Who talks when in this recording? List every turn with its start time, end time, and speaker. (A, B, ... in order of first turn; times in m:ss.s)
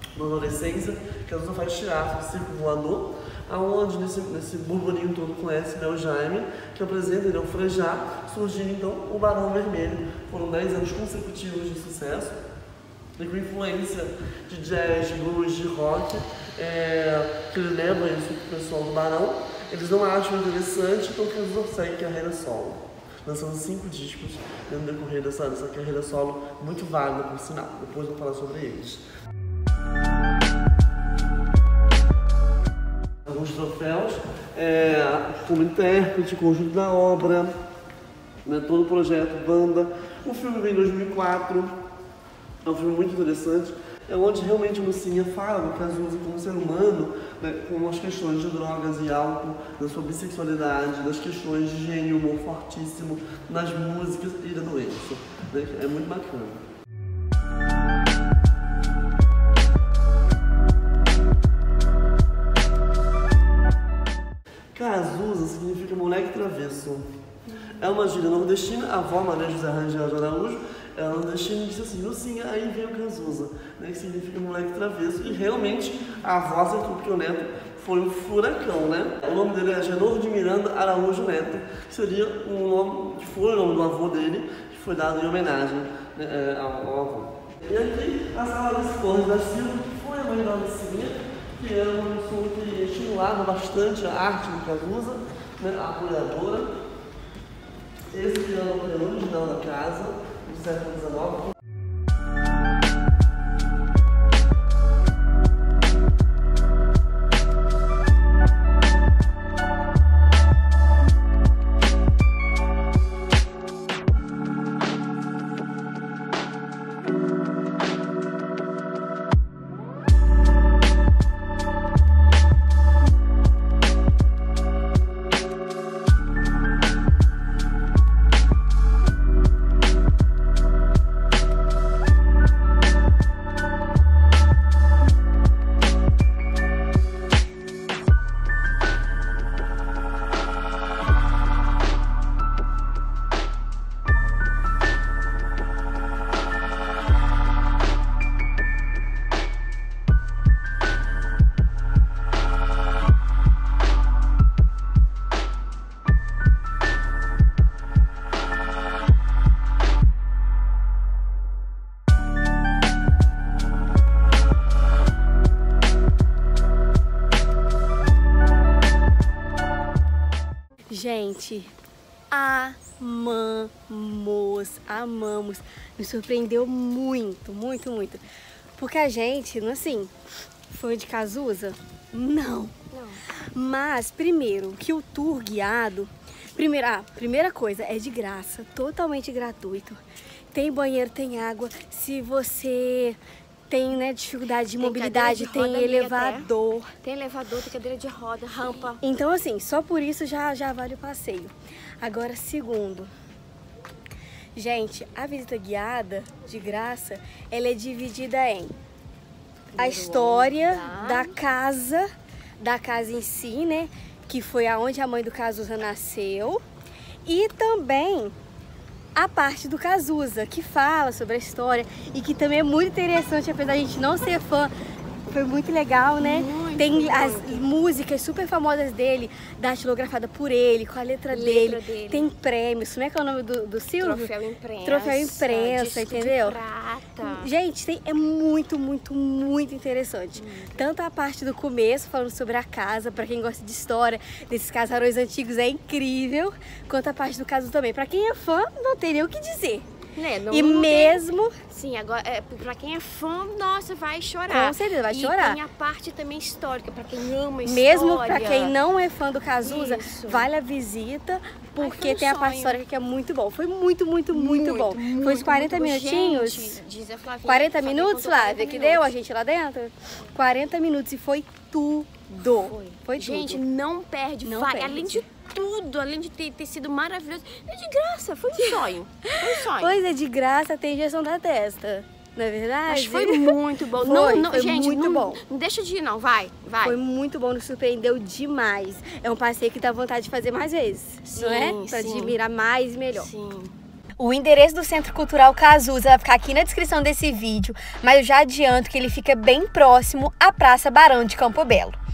0:00.1-0:12.4 A
0:13.2-0:29.0 A
0:33.2-0:37.5 A
0:38.4-0:41.7 A
0:42.6-0:56.6 A
1:04.7-1:07.1 A
1:07.7-1:36.8 A
1:38.1-1:41.6 A
2:50.9-2:51.7 B
2:52.3-2:58.2 B
2:58.8-3:00.1 B
3:00.7-3:02.7 B
3:02.9-3:03.2 C
3:03.5-3:10.0 B
3:10.5-3:13.2 B
3:13.7-3:16.9 B
3:14.8-3:16.5 C
3:17.0-3:19.0 C
3:19.0-3:23.1 B
3:24.5-3:28.7 B
3:29.7-3:31.3 C
3:29.8-3:32.0 B
3:32.6-3:36.6 B
3:37.2-3:38.3 B
3:39.1-3:44.7 B
3:45.3-3:54.3 B
3:46.2-3:47.6 C
3:51.3-3:52.3 C
3:54.0-3:57.5 C
3:54.8-3:56.6 B
3:57.2-4:09.8 B
4:00.4-4:00.8 C
4:10.2-4:18.7 C
4:10.5-4:11.6 B
4:14.5-4:15.6 B
4:17.6-4:26.8 B
4:19.6-4:20.5 C
4:21.8-4:22.8 C
4:24.3-4:29.1 C
4:27.4-4:33.6 B
4:32.9-4:40.0 C
4:34.4-4:35.2 B
4:38.6-4:38.9 B
4:39.4-4:45.4 B
4:42.9-4:47.0 C
4:46.8-4:53.3 B
4:51.3-4:52.4 C
4:53.1-4:53.7 C
4:54.2-5:02.0 B